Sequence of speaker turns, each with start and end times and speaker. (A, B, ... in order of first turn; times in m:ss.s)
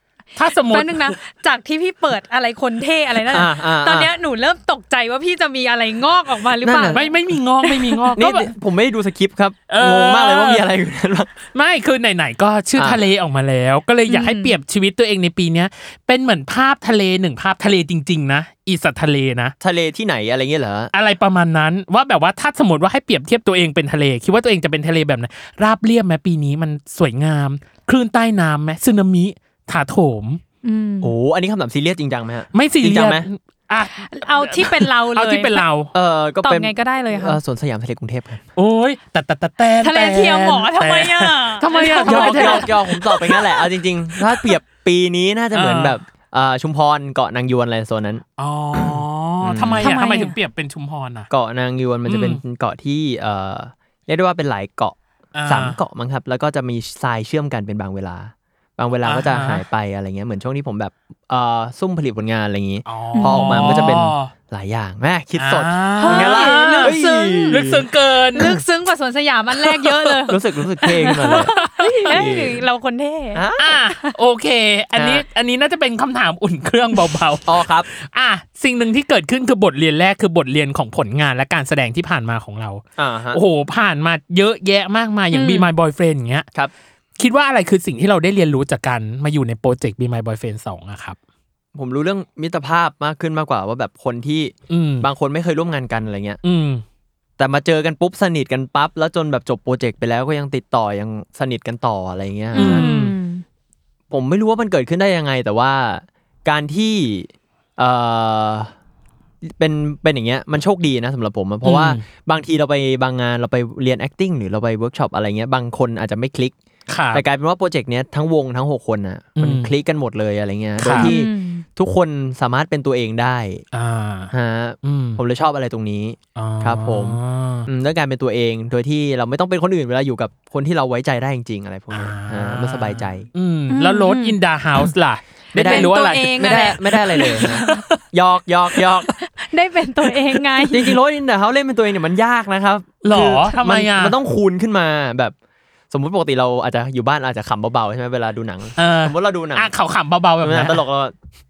0:00.4-0:01.2 A
0:00.6-0:07.0 B
0:03.3-0:04.1 C
0:06.6-0:07.1 C
0:06.9-0:08.5 A
0:07.6-0:08.1 B
0:08.2-0:11.4 C
0:09.7-0:10.6 A
0:11.5-0:19.5 A
0:12.8-0:13.0 C
0:14.1-0:14.5 B
0:19.6-0:20.9 C
0:20.9-0:30.4 A
0:30.6-0:31.1 B
0:31.0-0:33.3 C
0:32.5-0:35.9 A
0:34.0-0:35.6 B
0:35.9-0:38.4 C
0:36.4-0:37.4 B
0:38.6-0:43.4 A
0:39.8-0:43.4 B
0:42.0-0:48.2 C
0:45.5-0:46.0 A
0:48.4-0:51.3 A
0:49.4-0:49.9 C
0:49.8-0:50.4 B
0:51.3-1:07.8 C
0:52.1-0:52.4 A
0:55.4-0:55.8 A
0:59.0-0:59.6 A
1:02.9-1:04.3 A
1:03.1-1:03.9 B
1:05.4-1:07.0 A
1:06.0-1:07.6 B
1:07.5-1:08.6 A
1:08.4-1:14.2 B
1:09.6-1:10.2 A
1:10.3-1:11.5 C
1:11.2-1:12.2 A
1:12.1-1:12.6 C
1:13.4-1:13.7 C
1:13.6-1:22.8 A
1:15.0-1:15.2 C
1:17.4-1:17.9 C
1:23.0-1:23.4 C
1:23.3-1:26.5 A
1:25.3-1:25.7 B
1:27.2-1:31.2 A
1:31.8-1:36.4 C
1:34.7-1:35.1 A
1:36.4-1:36.8 A
1:37.4-1:42.9 C
1:42.5-1:43.4 B
1:42.6-1:43.2 A
1:44.1-1:48.7 C
1:49.4-1:56.6 C
1:51.6-1:52.0 A
1:56.9-1:57.2 A
1:57.1-2:03.6 C
1:59.4-1:59.7 A
2:00.8-2:01.1 A
2:00.9-2:01.6 B
2:03.7-2:04.3 A
2:04.3-2:13.3 C
2:04.8-2:05.2 A
2:06.4-2:07.7 A
2:11.9-2:18.0 A
2:13.7-2:14.4 B
2:15.5-2:19.1 C
2:15.6-2:17.8 B
2:18.8-2:19.1 A
2:19.3-2:20.9 B
2:20.1-2:20.4 A
2:20.7-2:25.4 C
2:23.0-2:24.2 A
2:23.2-2:23.5 B
2:25.9-2:29.7 C
2:28.8-2:30.8 A
2:30.4-2:31.2 C